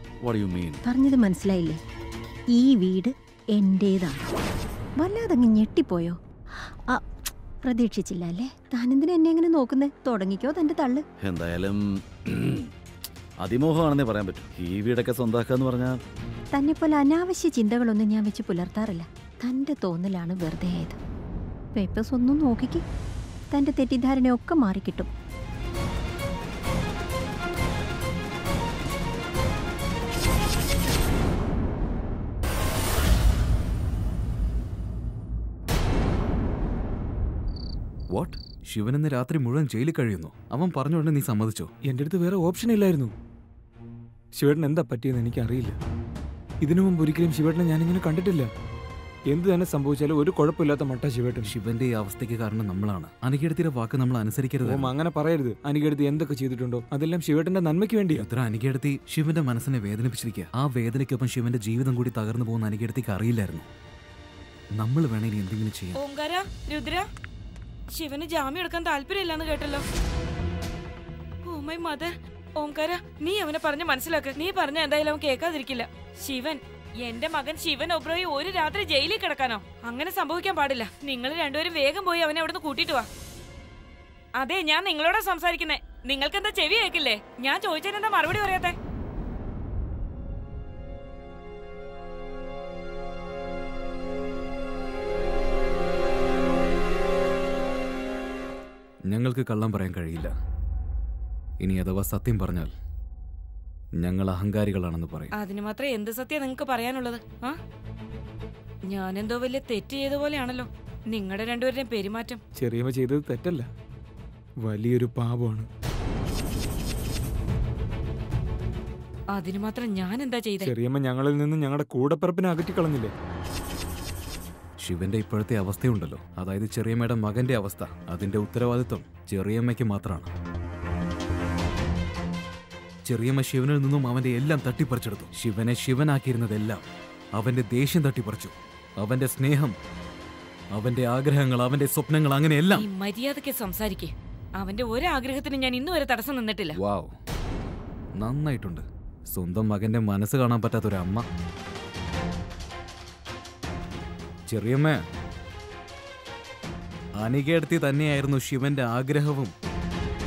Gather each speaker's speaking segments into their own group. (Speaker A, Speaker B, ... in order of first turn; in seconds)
Speaker A: 0.2-0.8, 11.2-12.7, 13.4-16.0
Speaker B: 0.8-1.8, 2.5-4.2, 5.0-7.0, 7.6-11.0, 16.5-21.0, 21.7-22.8, 23.5-25.1
Speaker C: 38.1-41.7, 51.4-54.9, 58.1-63.7, 64.8-66.0, 99.0-100.3, 101.6-102.7, 104.0-105.3, 124.8-130.3, 133.0-139.7, 140.7-142.8, 146.7-147.1, 148.2-151.2, 154.5-155.0, 157.2-159.5
Speaker D: 41.9-43.1, 44.4-45.8, 46.6-48.5, 49.3-51.5, 54.6-58.2, 112.6-113.7, 114.6-115.7, 120.6-123.1
Speaker E: 65.9-67.1, 67.9-69.8, 71.4-83.1, 84.4-88.8, 105.3-107.6, 108.8-112.4, 119.3-120.7, 142.7-146.8